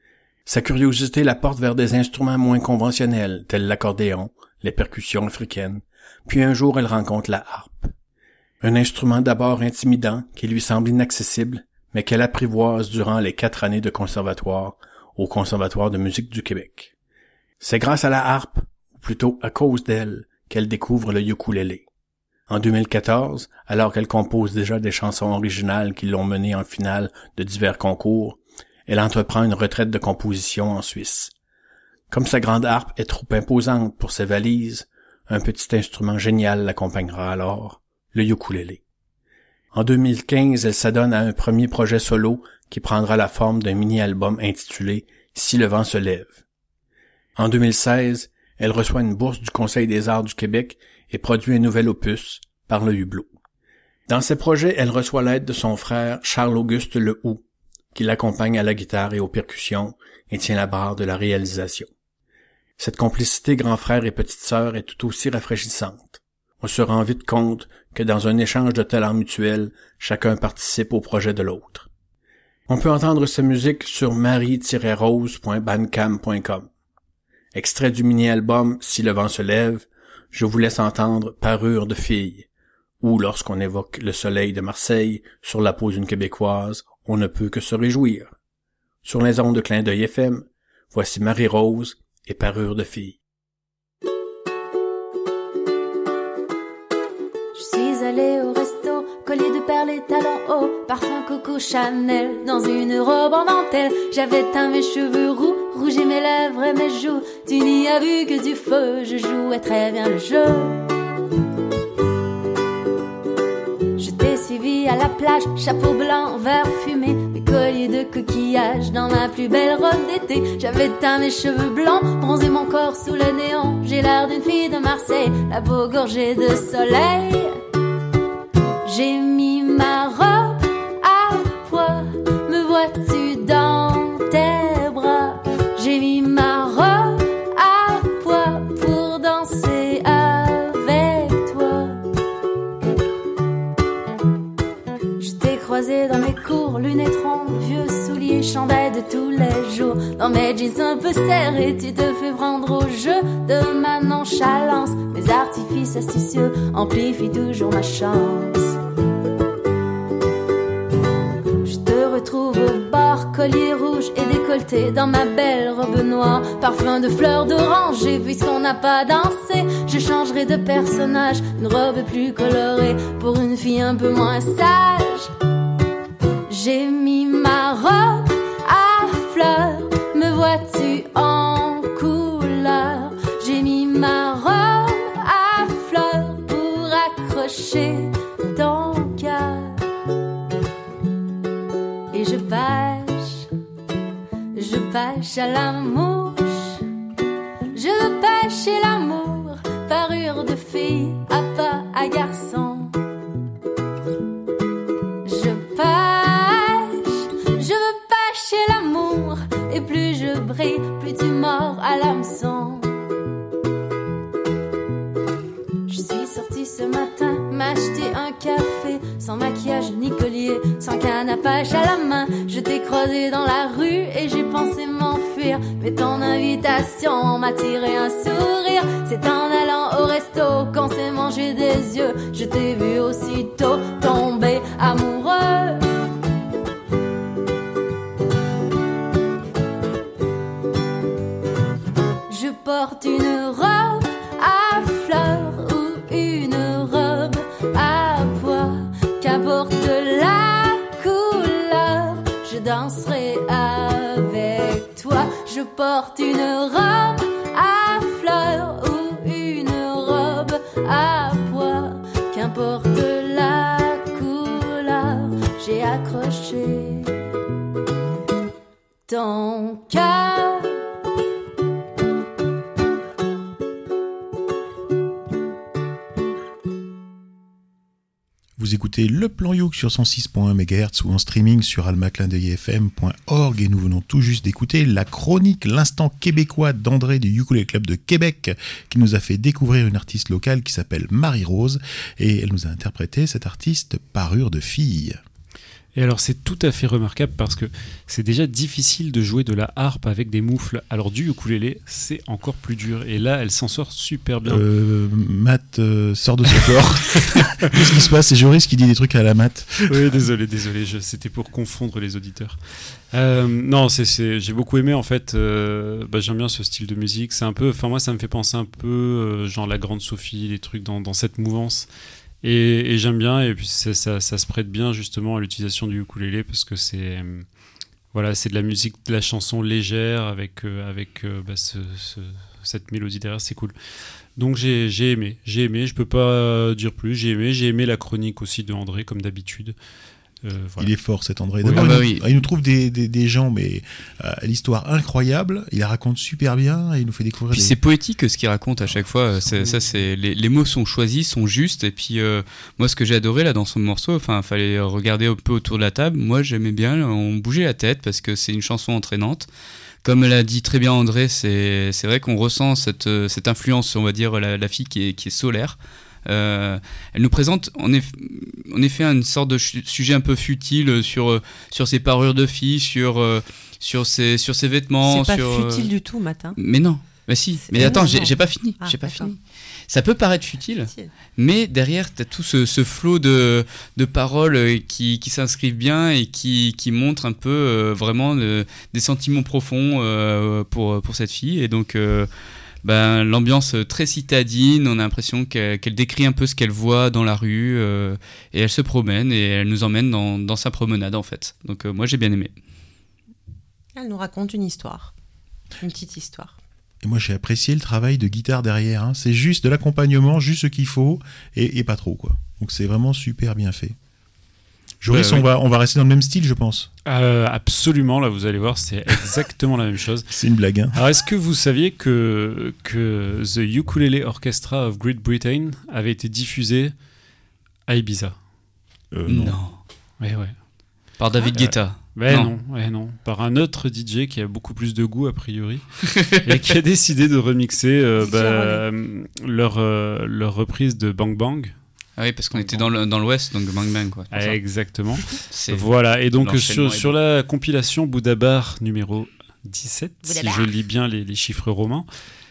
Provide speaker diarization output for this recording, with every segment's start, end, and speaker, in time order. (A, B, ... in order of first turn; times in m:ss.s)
0:00.4-0:07.9 A
0:08.6-0:16.9 A
0:17.6-0:21.8 A
0:22.5-0:31.3 A
0:32.1-0:38.8 A
0:39.7-0:46.4 A
0:47.4-0:53.3 A
0:54.1-0:57.4 A
0:57.9-1:01.9 A
1:02.8-1:11.9 A
1:12.7-1:16.7 A
1:17.5-1:22.5 A
1:23.0-1:28.3 A
1:29.0-1:33.2 A
1:37.5-1:50.8 B
1:54.0-2:07.6 B
2:08.8-2:22.0 B
2:25.2-2:38.8 B
2:41.6-2:55.3 B
2:56.5-3:09.8 B
3:12.1-3:13.5 B
3:14.5-3:16.8 B
3:17.7-3:23.0 B
3:25.2-3:32.9 B
3:35.9-3:55.8 B
4:02.3-4:27.2 B
4:29.1-4:30.8 B
4:38.6-4:55.2 C
4:55.9-5:04.6 D
5:04.4-5:10.2 C
5:09.9-5:21.9 D
5:22.4-5:27.4 D
5:28.1-5:33.7 D
5:34.4-5:39.7 D
5:40.4-5:40.9 D
5:40.8-5:47.8 C
5:41.6-5:41.9 D
5:41.6-5:42.2 E
5:47.5-5:59.5 E
6:00.0-6:15.9 E
6:15.0-6:16.6 F
6:16.6-6:32.3 E
6:17.6-6:19.3 F
6:32.8-6:42.5 E
6:43.9-6:45.1 F
6:45.8-6:46.6 F
6:47.0-6:53.9 C
6:55.0-6:56.9 C
6:57.1-7:00.3 D
7:00.3-7:01.0 C
7:00.9-7:06.9 D
7:07.9-7:08.4 D
7:09.1-7:09.6 C
7:09.3-7:09.8 E
7:10.2-7:10.6 D
7:11.2-7:12.5 E
7:11.5-7:21.7 D
7:16.2-7:16.4 E
7:18.2-7:18.8 F
7:22.2-7:24.6 E
7:22.5-7:22.9 D
7:24.3-7:32.0 D
7:25.3-7:27.1 E